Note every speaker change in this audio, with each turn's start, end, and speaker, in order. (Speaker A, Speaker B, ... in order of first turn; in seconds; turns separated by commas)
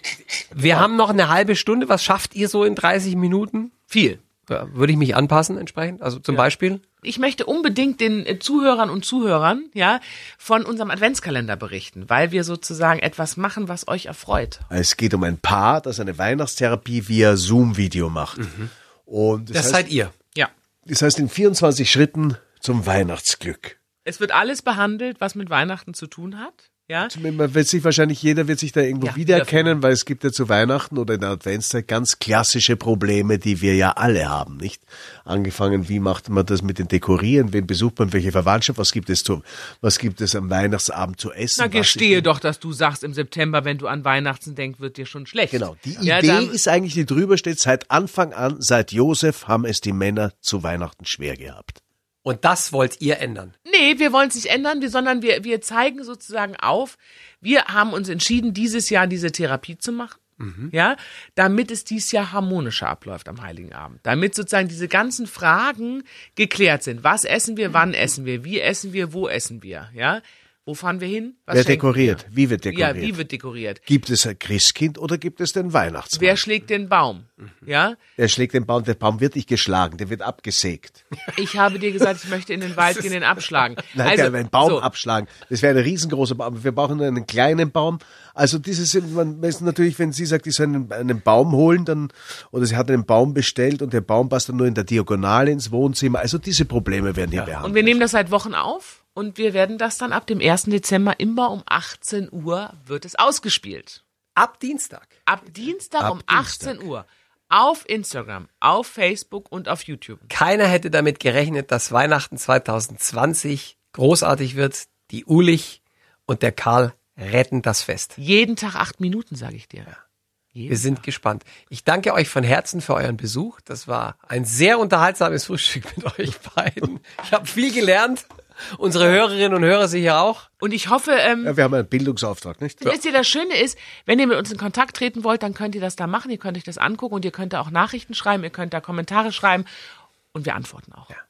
Speaker A: 0.5-3.7, Speaker B: 3.9-4.2, Speaker A: 4.5-6.8, Speaker B: 7.0-14.6, Speaker C: 14.7-18.5, Speaker A: 18.4-18.7, Speaker C: 19.1-19.9, Speaker A: 19.5-20.1, Speaker C: 20.9-23.8, Speaker B: 24.0-27.1, Speaker C: 27.0-42.3, Speaker B: 29.0-29.7, Speaker B: 41.6-46.6, Speaker C: 45.5-51.8, Speaker A: 52.2-53.5, Speaker B: 53.6-60.2, Speaker A: 60.4-60.7, Speaker B: 60.7-73.8, Speaker C: 71.5-73.2, Speaker C: 73.9-76.4, Speaker B: 76.1-78.0, Speaker C: 78.2-81.0, Speaker B: 81.3-84.8, Speaker C: 83.9-98.0, Speaker B: 97.6-104.0, Speaker A: 104.3-105.1, Speaker B: 105.3-110.3, Speaker C: 106.0-106.8, Speaker A: 110.3-118.2, Speaker B: 118.2-119.9, Speaker B: 120.5-121.0, Speaker A: 120.7-130.4, Speaker B: 130.6-131.6, Speaker C: 131.4-133.0, Speaker B: 132.8-139.7, Speaker B: 140.3-141.1